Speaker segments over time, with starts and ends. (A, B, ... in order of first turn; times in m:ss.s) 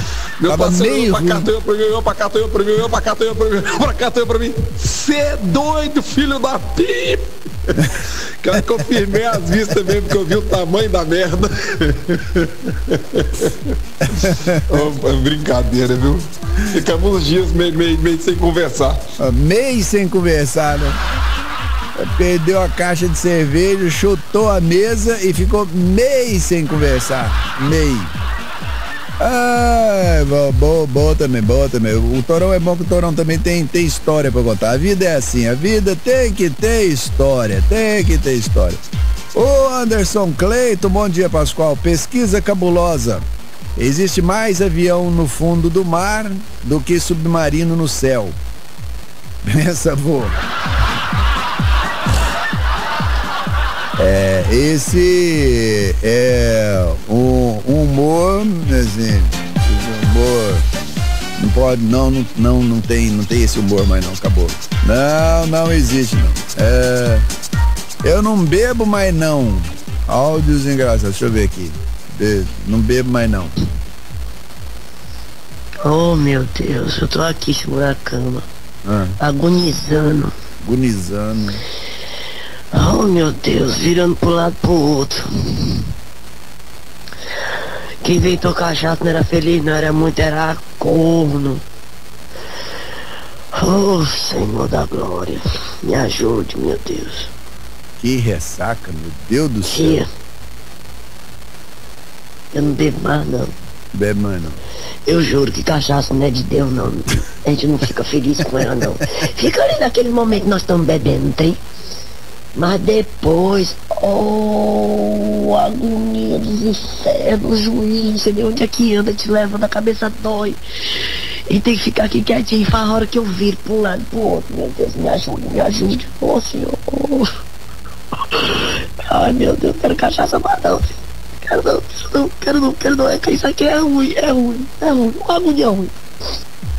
0:00.4-0:07.8 A
0:00.5-0:01.5 B
0:08.4-0:13.5 A
0:14.2-0:14.9 B
0:14.2-0:19.0 A
0:19.2-0:21.0 B
0:22.0-0:28.1 B
0:29.2-0:38.8 B
0:39.3-0:43.2 B
0:43.8-0:48.4 B
0:49.4-0:50.4 B
0:54.0-1:00.6 B
1:01.4-1:07.2 B
1:08.0-1:13.5 B
1:15.8-1:18.4 C
1:18.8-1:19.2 B
1:19.2-1:20.3 C
1:20.6-1:21.6 B
1:22.7-1:25.8 C
1:28.0-1:31.6 C
1:33.6-1:37.3 C
1:38.0-1:40.0 B
1:39.6-1:40.1 C
1:42.5-1:43.5 C
1:43.9-1:44.6 B
1:45.1-1:51.6 C
1:52.6-2:00.6 C
2:01.5-2:07.3 C
2:08.4-2:15.9 C